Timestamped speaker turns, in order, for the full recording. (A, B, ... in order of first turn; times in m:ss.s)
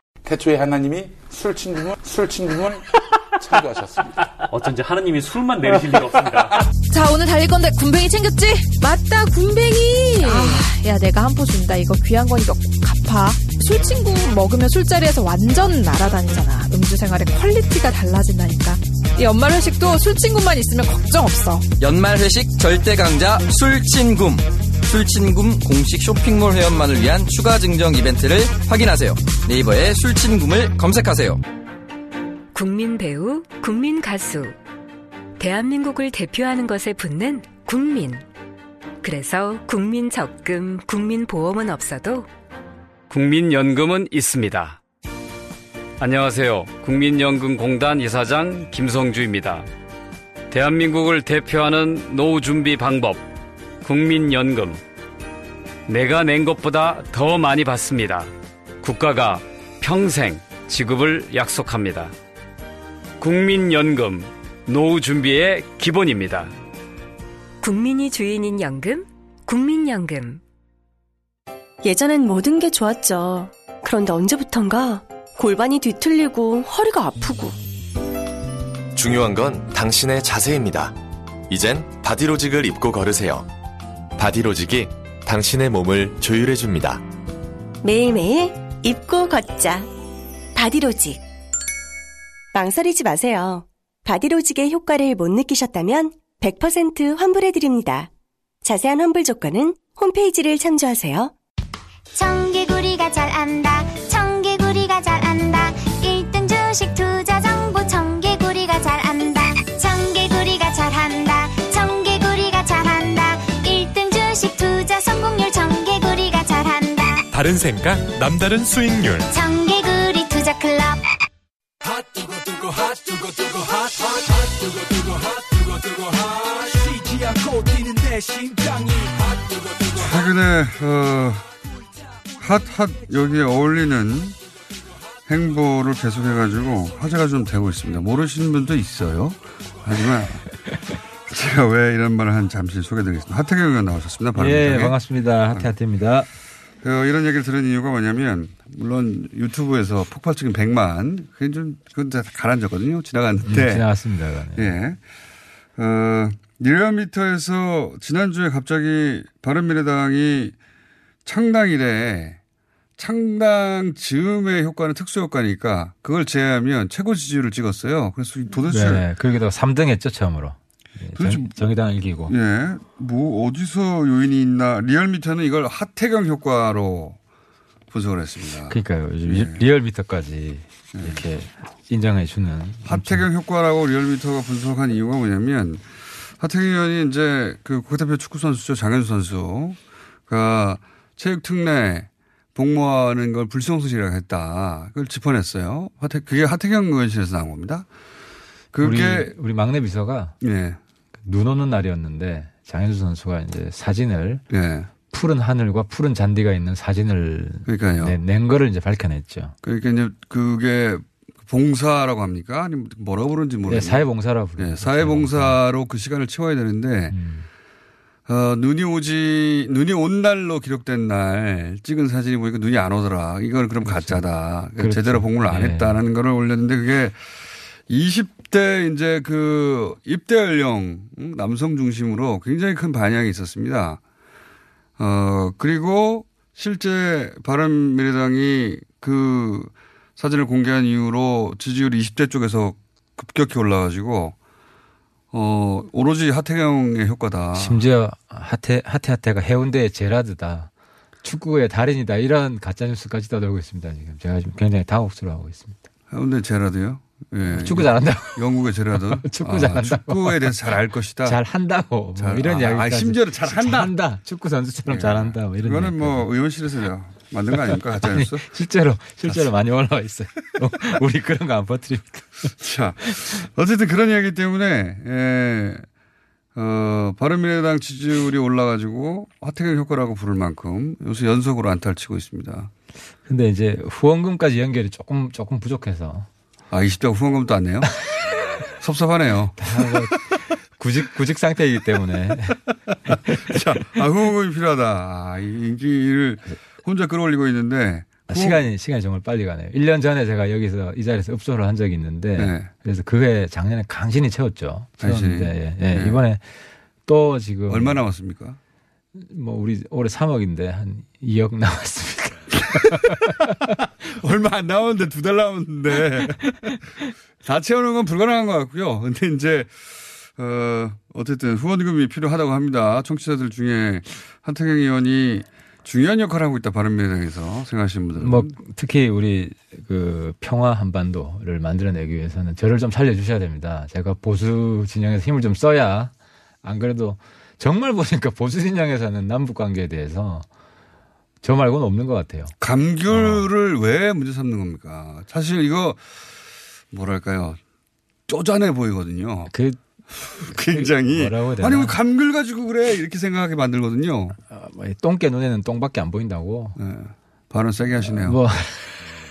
0:00.2-0:02.9 A
0:03.4-0:04.1 A
0:04.5-0:06.5 B
0:06.9-0:21.6 C
0:10.2-0:10.6 D
0:21.8-0:31.4 E
0:32.5-0:34.6 D
0:35.4-0:38.2 D
0:39.0-0:42.3 D
0:43.1-0:44.8 F
0:46.0-0:49.7 F
0:50.5-0:53.3 F
0:53.8-0:54.8 F
0:55.9-0:58.3 F
0:58.8-1:02.1 F
1:03.2-1:06.5 F
1:07.6-1:10.4 D
1:11.8-1:17.6 G
1:18.9-1:20.9 H
1:21.5-1:23.5 H
1:24.2-1:27.0 H
1:27.8-1:29.9 G
1:30.5-1:31.2 G
1:32.5-1:38.1 G
1:38.6-1:41.3 G
1:42.1-1:57.3 I
1:57.3-1:59.3 J
1:59.3-2:01.0 I
2:09.9-2:11.5 K
2:12.4-2:14.4 K
2:15.2-2:20.4 K
2:21.3-2:25.0 K
2:24.4-2:26.3 L
2:26.8-2:33.8 K
2:33.4-2:34.7 L
2:34.6-2:35.0 K
2:35.8-2:40.5 K
2:41.2-2:42.4 K
2:43.0-2:49.0 K
2:48.7-2:52.3 L
2:51.1-2:51.5 K
2:52.3-2:57.2 K
2:57.9-2:59.6 K
2:58.7-3:03.2 L
3:00.9-3:01.2 K
3:02.8-3:17.9 K
3:18.7-3:19.3 K
3:18.8-3:20.4 L
3:20.4-3:20.8 K
3:21.2-3:24.4 L
3:24.5-3:24.9 K
3:25.1-3:29.5 L
3:27.6-3:28.2 K
3:29.6-3:34.0 K
3:33.7-3:35.6 L
3:34.6-3:37.2 K
3:37.1-3:37.4 L
3:38.3-3:47.3 K
3:43.8-3:44.2 L
3:44.8-3:46.0 L
3:47.9-3:54.0 K
3:55.0-4:04.3 K
4:05.3-4:07.8 K
4:07.6-4:10.7 L
4:11.2-4:15.8 L
4:16.1-4:21.4 K
4:17.5-4:18.4 L
4:18.9-4:20.6 L
4:21.2-4:26.3 L
4:22.2-4:23.9 K
4:24.9-4:28.4 K
4:27.7-4:32.5 L
4:32.6-4:35.8 K
4:36.5-4:42.7 K
4:43.3-4:46.3 L
4:46.7-4:47.9 K
4:48.8-4:49.6 K
4:49.6-4:53.5 L
4:53.4-4:58.6 K
4:58.3-5:08.0 L
5:02.4-5:02.7 K
5:05.0-5:06.2 K
5:07.7-5:08.6 K
5:09.1-5:13.5 L
5:14.1-5:16.8 K
5:17.4-5:28.6 K
5:28.2-5:40.5 L
5:41.4-5:42.5 L
5:42.6-5:46.2 K
5:43.1-5:43.4 L
5:46.9-5:47.6 K
5:48.3-5:49.5 K
5:49.5-5:49.8 L
5:50.1-5:54.4 K
5:50.5-5:52.0 L
5:54.5-5:56.8 L
5:56.8-5:58.4 K
5:58.0-5:58.9 L